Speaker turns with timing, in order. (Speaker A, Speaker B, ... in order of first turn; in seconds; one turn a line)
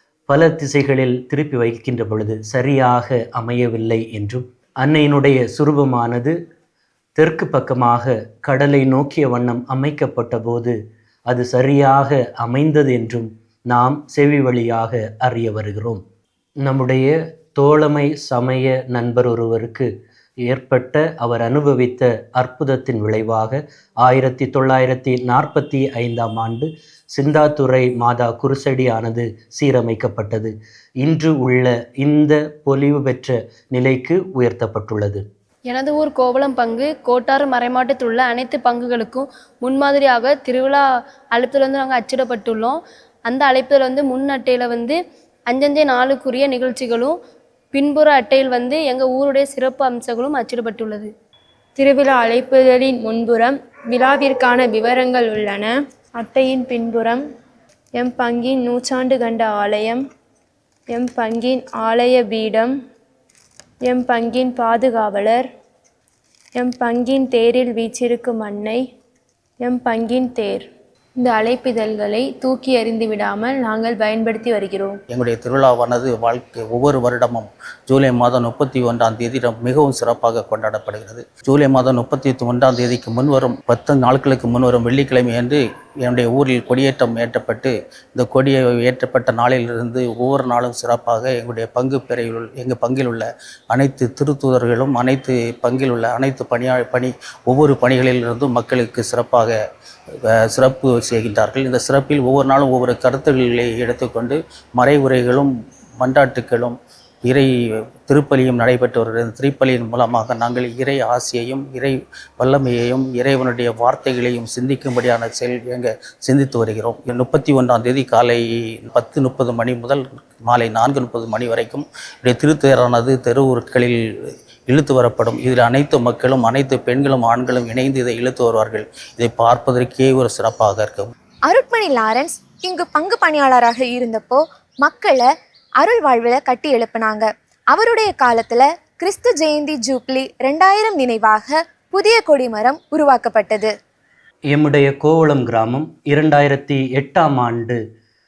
Speaker A: 0.3-6.4
Speaker A: 7.2-10.8
Speaker A: 11.3-16.0
Speaker A: 16.6-19.9
Speaker A: 20.5-35.2
Speaker B: 35.7-45.0
Speaker B: 45.5-47.2
Speaker B: 47.7-51.1
Speaker C: 51.8-57.2
Speaker C: 58.0-60.0
Speaker C: 60.9-62.8
Speaker C: 63.9-65.5
Speaker C: 66.6-68.8
Speaker C: 69.6-70.7
Speaker C: 71.2-75.0
Speaker D: 75.1-99.6
Speaker D: 100.2-107.5
Speaker D: 108.1-124.0
Speaker D: 124.7-131.1
Speaker E: 131.5-135.3
Speaker E: 135.8-143.7
Speaker A: 144.5-147.8